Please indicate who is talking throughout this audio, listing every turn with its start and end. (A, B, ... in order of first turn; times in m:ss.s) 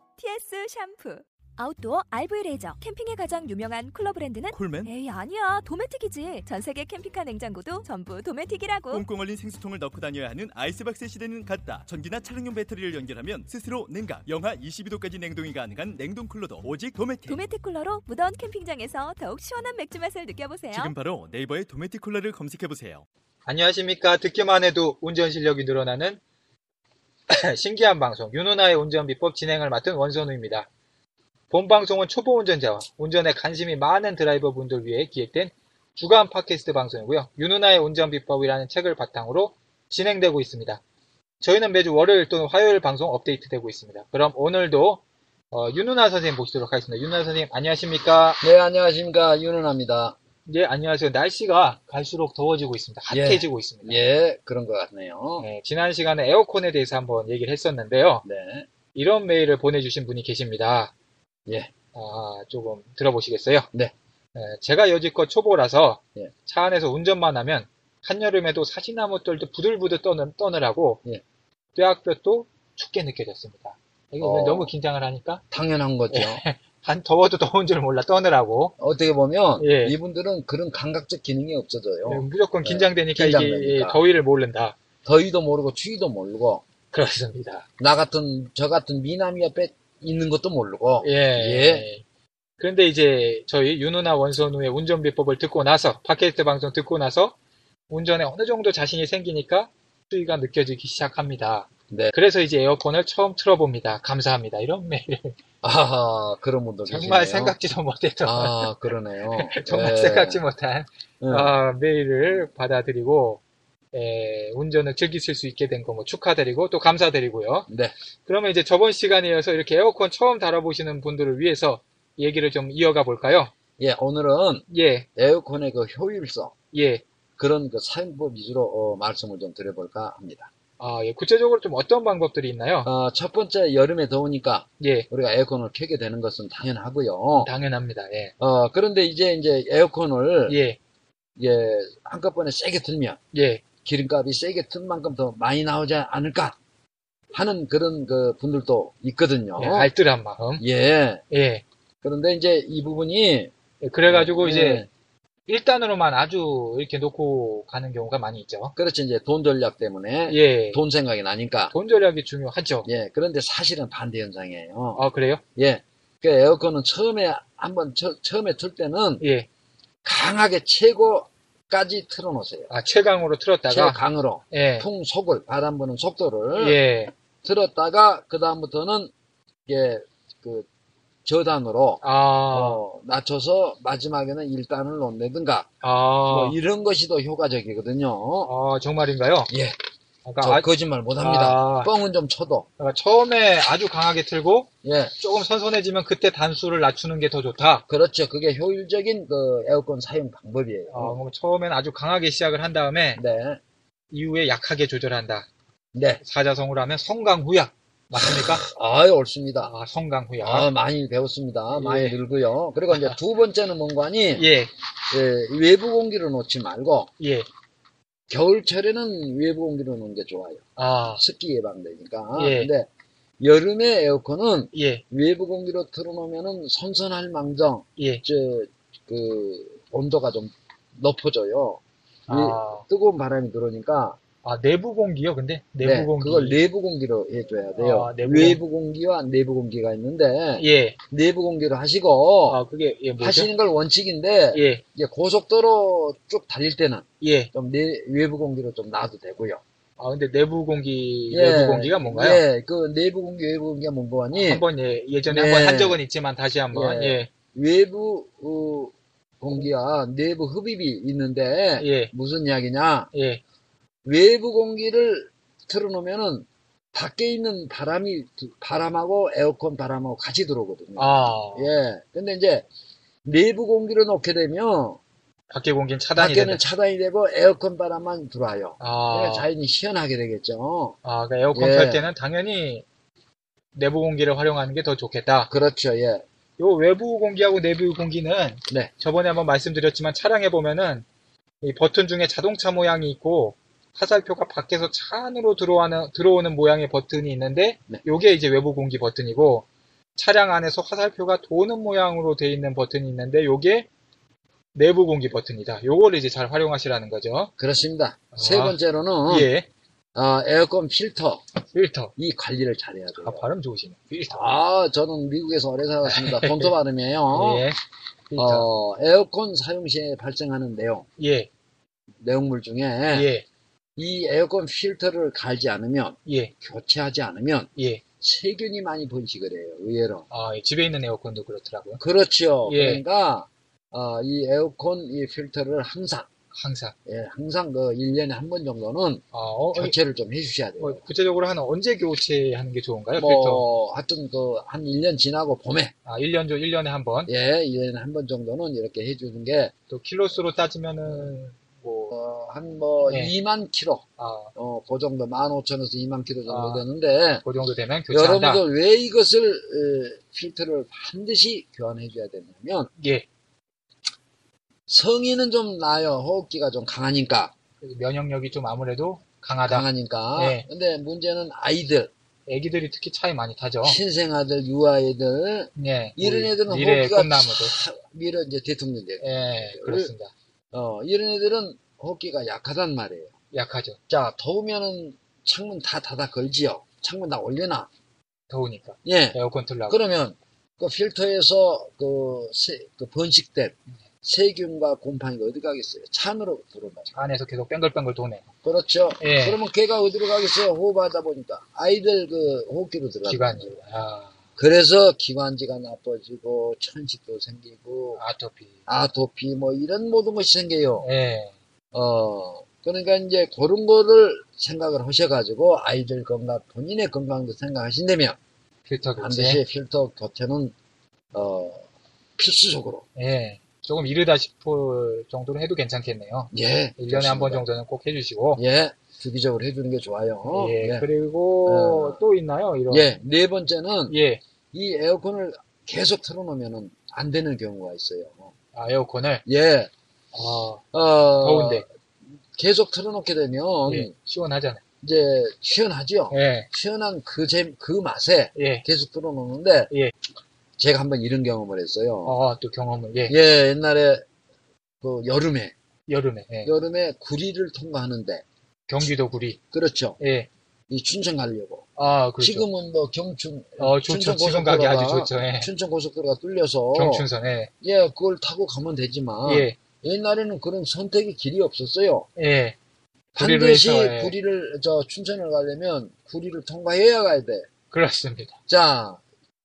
0:00.2-0:09.0 A
0:04.5-0:04.9 B
0:08.9-0:17.4 B
0:17.3-0:20.9 A
0:20.7-0:23.0 B
0:23.4-0:26.2 C
0:27.3-0:30.7 C
0:31.5-0:40.8 C
0:41.4-0:48.4 C
0:48.4-0:50.2 D
0:50.4-0:54.0 C
0:53.1-0:55.5 D
0:55.4-0:58.2 C
0:58.2-0:58.7 D
0:58.9-1:00.9 C
1:01.5-1:01.7 D
1:01.9-1:03.7 C
1:04.3-1:11.0 C
1:11.7-1:15.4 C
1:14.2-1:14.7 D
1:15.5-1:16.4 D
1:16.1-1:18.7 C
1:18.8-1:24.0 D
1:19.6-1:20.0 C
1:22.0-1:24.8 C
1:25.0-1:26.6 D
1:26.9-1:27.7 C
1:27.8-1:31.9 D
1:31.0-1:32.0 C
1:32.6-1:37.4 C
1:37.9-1:45.4 C
1:45.6-1:47.6 D
1:46.8-1:53.4 C
1:48.2-1:50.4 D
1:51.2-1:51.5 D
1:53.9-1:57.7 C
1:57.7-1:57.9 D
1:58.2-2:03.5 C
2:03.8-2:06.5 D
2:04.7-2:05.1 C
2:06.7-2:07.0 C
2:07.4-2:10.5 D
2:10.8-2:12.9 C
2:12.8-2:17.5 D
2:14.8-2:15.1 C
2:17.3-2:18.3 C
2:18.4-2:20.6 D
2:20.5-2:20.8 C
2:21.4-2:23.2 D
2:23.3-2:23.6 C
2:23.8-2:26.6 D
2:27.3-2:29.9 D
2:29.6-2:30.6 C
2:30.6-2:31.2 D
2:31.3-2:31.6 C
2:32.0-2:33.5 D
2:33.8-2:34.8 C
2:34.1-2:34.9 D
2:35.5-2:38.7 C
2:38.8-2:41.7 D
2:40.3-2:40.8 C
2:41.7-2:42.9 C
2:42.8-2:49.2 D
2:44.9-2:45.4 C
2:49.2-2:49.5 C
2:50.0-2:52.7 D
2:52.7-2:54.9 C
2:53.7-2:56.8 D
2:56.5-2:57.1 C
2:57.4-2:59.1 D
2:59.7-3:00.7 D
3:01.2-3:05.7 D
3:02.0-3:02.8 C
3:05.8-3:06.6 C
3:06.2-3:08.5 D
3:08.4-3:09.5 C
3:09.5-3:09.8 D
3:10.2-3:11.9 C
3:10.4-3:12.7 D
3:12.8-3:17.8 C
3:14.8-3:15.1 D
3:17.9-3:21.2 D
3:20.9-3:23.2 C
3:23.2-3:23.6 D
3:24.1-3:25.5 C
3:25.9-3:26.2 D
3:26.2-3:28.6 C
3:28.2-3:29.7 D
3:29.6-3:30.7 C
3:30.4-3:34.5 D
3:31.7-3:32.2 C
3:32.9-3:33.2 C
3:34.4-3:34.7 C
3:35.1-3:37.1 D
3:37.2-3:37.5 C
3:38.3-3:42.9 D
3:40.8-3:41.2 C
3:42.3-3:42.7 C
3:43.4-3:54.2 D
3:44.7-3:45.0 C
3:48.0-3:48.2 C
3:52.3-3:52.8 C
3:54.4-3:56.6 C
3:55.8-4:02.6 D
3:57.8-3:58.6 C
4:00.6-4:01.0 C
4:02.4-4:03.5 C
4:03.2-4:09.6 D
4:04.5-4:04.8 C
4:07.2-4:07.5 C
4:10.0-4:12.4 C
4:11.3-4:14.6 D
4:14.3-4:17.3 C
4:15.2-4:16.0 D
4:16.7-4:23.1 D
4:21.8-4:22.1 C
4:23.1-4:23.4 C
4:24.0-4:32.7 D
4:31.0-4:31.7 C
4:33.2-4:35.0 D
4:35.5-4:36.6 C
4:36.2-4:41.0 D
4:38.8-4:39.5 C
4:41.0-4:42.8 C
4:41.5-4:42.0 D
4:43.7-4:45.5 C
4:45.5-4:46.2 D
4:46.6-4:51.0 C
4:51.6-5:03.9 C
5:04.7-5:07.5 C
5:07.6-5:09.5 D
5:08.3-5:09.7 C
5:10.1-5:11.4 D
5:11.7-5:12.1 C
5:12.2-5:13.4 D
5:13.2-5:14.5 C
5:14.3-5:17.7 D
5:16.0-5:16.7 C
5:17.3-5:18.7 C
5:18.4-5:21.0 D
5:21.2-5:21.5 C
5:22.2-5:23.3 D
5:23.1-5:23.4 C
5:24.0-5:30.3 D
5:26.2-5:26.5 C
5:27.8-5:28.0 C
5:30.3-5:32.0 C
5:32.0-5:36.3 D
5:32.6-5:33.0 C
5:36.5-5:36.9 C
5:37.0-5:41.0 D
5:39.3-5:40.0 C
5:40.8-5:43.7 C
5:43.2-5:45.9 D
5:46.0-5:47.3 C
5:47.3-5:49.7 D
5:49.9-5:52.1 C
5:52.1-5:57.4 D
5:53.1-5:53.3 C
5:54.2-5:54.5 C
5:56.4-5:56.9 C
5:57.4-5:58.6 C
5:58.1-6:02.9 D
6:03.0-6:03.2 C
6:04.9-6:07.5 D
6:07.8-6:10.6 C
6:09.6-6:12.1 D
6:12.4-6:14.0 C
6:13.8-6:20.1 D
6:15.8-6:17.7 C
6:19.2-6:20.3 C
6:20.7-6:23.3 D
6:23.5-6:24.0 C
6:24.1-6:27.9 D
6:28.5-6:30.0 C
6:29.0-6:37.2 D
6:37.1-6:38.4 C
6:38.6-6:43.8 D
6:39.2-6:39.6 C
6:43.2-6:44.4 C
6:44.6-6:48.2 D
6:48.1-6:48.8 C
6:48.9-6:51.1 D
6:51.0-6:51.5 C
6:51.9-6:58.4 D
6:58.8-6:59.6 C
6:59.2-7:00.7 D
7:01.3-7:01.8 D
7:02.4-7:03.0 D
7:03.2-7:08.6 C
7:06.5-7:07.6 D
7:08.6-7:11.1 D
7:10.5-7:13.1 C
7:11.6-7:12.2 D
7:12.9-7:14.2 D
7:14.1-7:14.4 C
7:14.7-7:18.5 D
7:18.7-7:19.4 C
7:19.4-7:19.9 D
7:20.3-7:20.8 C
7:20.9-7:21.9 D
7:21.4-7:21.8 C
7:22.5-7:24.1 D
7:23.8-7:24.8 C
7:25.0-7:29.9 D
7:26.3-7:26.7 C
7:28.5-7:28.8 C
7:30.8-7:32.4 D
7:32.2-7:33.4 C
7:33.3-7:34.2 D
7:35.0-7:35.7 D
7:36.1-7:36.7 C
7:36.6-7:38.4 D
7:38.9-7:39.6 C
7:39.7-7:40.2 D
7:40.2-7:40.5 C
7:40.9-7:47.3 D
7:42.0-7:42.7 C
7:43.8-7:45.7 C
7:46.9-7:47.7 C
7:47.8-7:52.3 D
7:49.4-7:49.8 C
7:52.4-7:52.8 C
7:53.3-7:57.7 D
7:53.4-7:54.3 C
7:57.9-7:58.6 C
7:58.7-7:59.2 D